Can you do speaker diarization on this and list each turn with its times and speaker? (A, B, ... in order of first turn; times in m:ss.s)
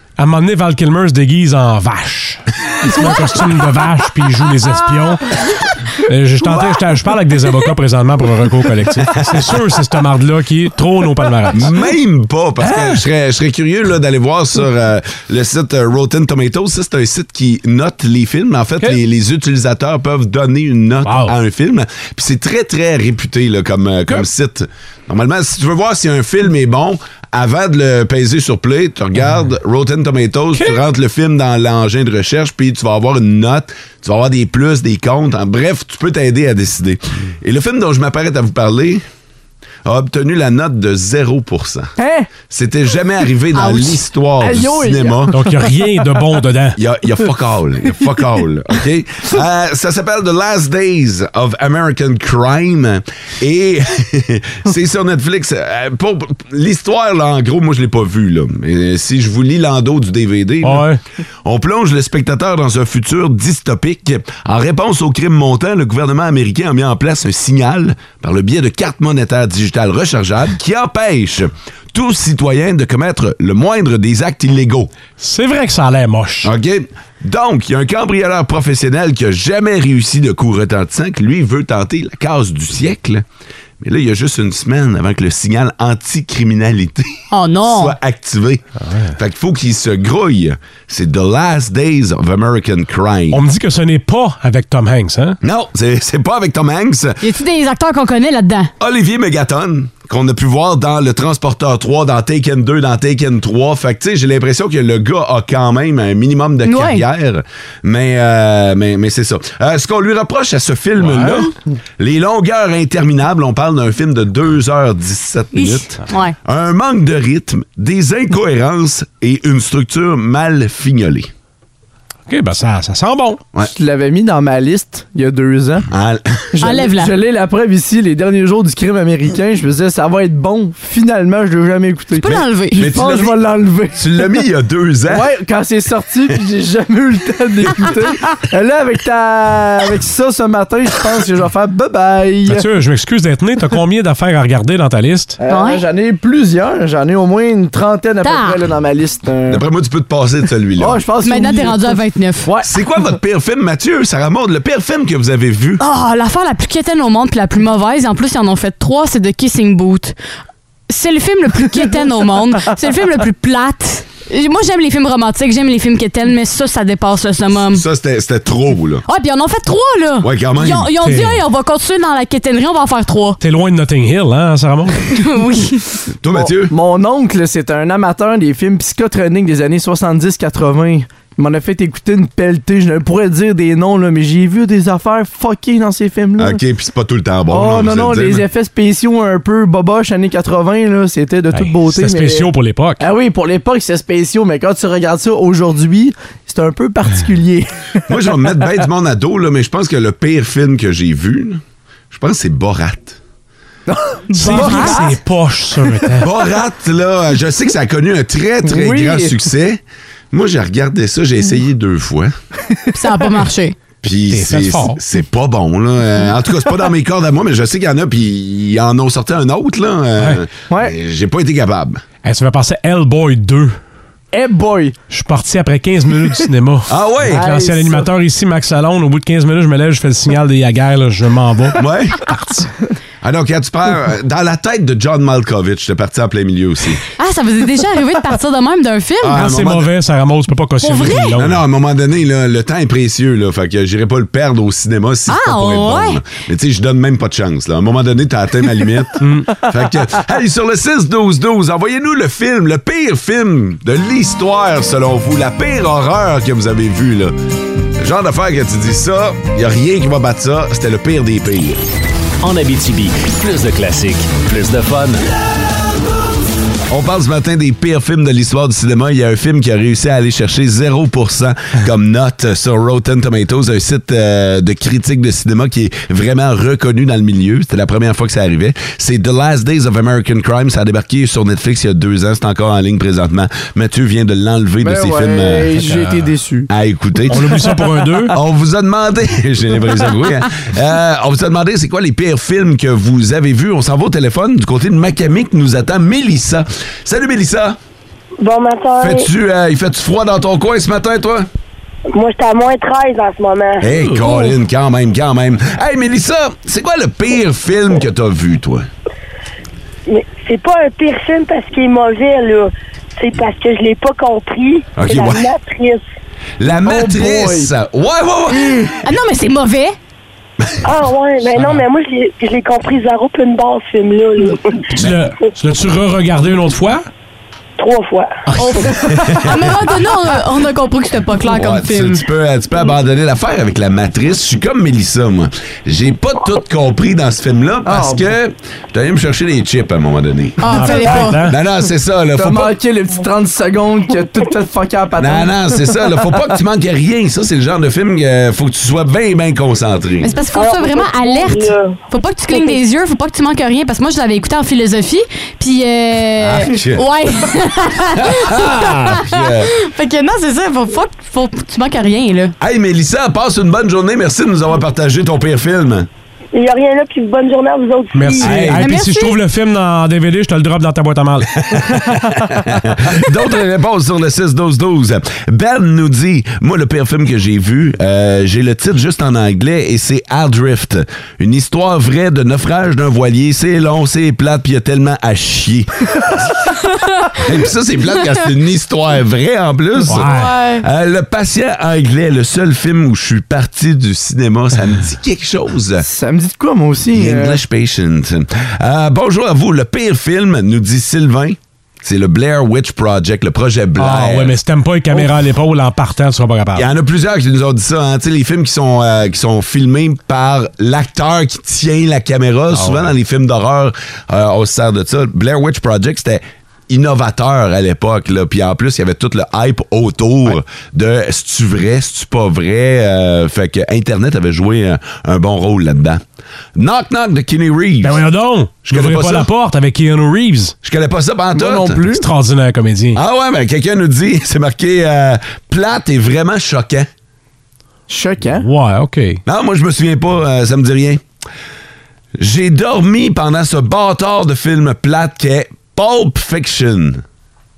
0:00.2-0:11.7 A
0:11.5-0:39.0 B
0:12.6-0:13.0 A
0:21.0-0:21.3 A
0:39.8-0:41.9 B
0:42.0-0:42.3 C
0:42.5-0:45.3 B
0:43.5-0:44.0 D
0:44.4-0:45.4 C
0:45.3-0:46.8 A
0:46.8-1:00.9 B
1:00.6-1:01.0 A
1:01.4-1:14.9 B
1:15.2-1:16.5 A
1:16.4-1:23.2 B
1:23.8-1:33.4 B
1:27.3-1:28.0 D
1:33.3-1:35.4 A
1:35.4-1:37.2 B
1:37.2-1:38.7 D
1:38.8-2:01.3 B
1:46.6-1:47.0 D
1:51.0-1:51.4 A
1:55.5-1:56.4 D
2:02.3-2:03.4 A
2:03.6-2:05.9 C
2:05.9-2:06.4 B
2:06.5-2:14.4 C
2:06.6-2:07.1 D
2:12.2-2:12.9 D
2:12.3-2:13.4 B
2:13.9-2:15.3 B
2:15.1-2:22.6 C
2:22.5-2:25.4 A
2:25.4-2:29.6 C
2:25.5-2:25.8 D
2:28.2-2:28.6 D
2:29.5-2:31.0 B
2:30.8-2:31.9 C
2:31.2-2:32.5 D
2:32.4-2:32.8 C
2:32.6-2:35.8 B
2:35.8-2:40.2 D
2:40.9-2:47.8 D
2:47.7-2:49.0 B
2:49.0-2:53.4 D
2:50.2-2:50.9 B
2:51.0-2:51.4 A
2:53.4-2:55.1 A
2:55.1-2:56.0 D
2:56.2-2:56.7 B
2:56.3-3:06.6 C
3:06.4-3:08.4 B
3:07.5-3:18.6 C
3:11.5-3:13.0 A
3:18.1-3:23.2 B
3:23.9-3:25.1 C
3:24.3-3:25.1 D
3:24.3-3:26.3 A
3:26.2-3:29.8 B
3:28.6-3:29.4 C
3:30.3-3:32.3 B
3:32.9-3:33.8 D
3:34.0-3:42.0 B
3:34.3-3:35.0 A
3:40.7-3:40.9 C
3:42.2-3:43.8 A
3:44.3-3:44.9 C
3:45.1-3:52.6 A
3:46.9-3:47.4 B
3:47.3-3:48.1 C
3:51.7-3:52.3 B
3:53.2-3:57.0 B
3:57.2-3:59.4 D
3:59.2-3:59.9 B
3:59.3-4:01.6 A
4:00.8-4:01.3 D
4:01.4-4:17.3 B
4:05.3-4:06.2 D
4:09.2-4:09.5 A
4:18.0-4:21.8 B
4:22.4-4:25.2 E
4:26.9-4:45.8 B
4:44.8-4:46.7 C
4:45.8-4:46.3 A
4:46.7-4:47.6 B
4:47.3-4:48.4 A
4:48.3-4:57.8 B
4:58.4-4:59.3 F
4:59.0-5:01.5 B
5:02.1-5:03.8 F
5:03.8-5:08.8 B
5:03.9-5:04.5 A
5:10.1-5:16.0 F
5:15.0-5:15.5 B
5:16.6-5:18.9 B
5:16.8-5:17.7 C
5:18.5-5:20.0 D
5:20.8-5:24.8 F
5:24.9-5:27.0 A
5:27.8-5:28.4 F
5:28.5-5:32.2 D
5:29.0-5:29.7 B
5:31.5-5:42.8 B
5:37.8-5:38.3 C
5:40.6-5:41.4 D
5:40.6-5:41.6 A
5:42.3-5:46.4 C
5:45.2-5:50.3 B
5:50.2-6:02.5 D
5:50.5-5:52.8 F
5:56.4-5:57.0 B
5:58.2-5:59.7 B
6:02.6-6:06.1 B
6:06.5-6:08.6 F
6:08.1-6:11.5 A
6:08.4-6:08.9 B
6:08.8-6:09.4 D
6:11.7-6:25.9 B
6:27.3-6:36.0 B
6:30.0-6:30.5 A
6:30.2-6:30.8 D
6:36.0-6:37.6 C
6:37.1-6:44.6 B
6:44.0-6:46.9 A
6:46.7-7:06.2 B
7:06.7-7:08.2 B
7:08.0-7:10.7 A
7:08.8-7:09.5 B
7:10.8-7:12.0 B
7:11.5-7:12.2 C
7:12.1-7:13.2 A
7:13.1-7:17.1 B
7:18.1-7:18.7 C
7:18.6-7:19.4 A
7:19.4-7:21.2 B
7:22.4-7:27.2 B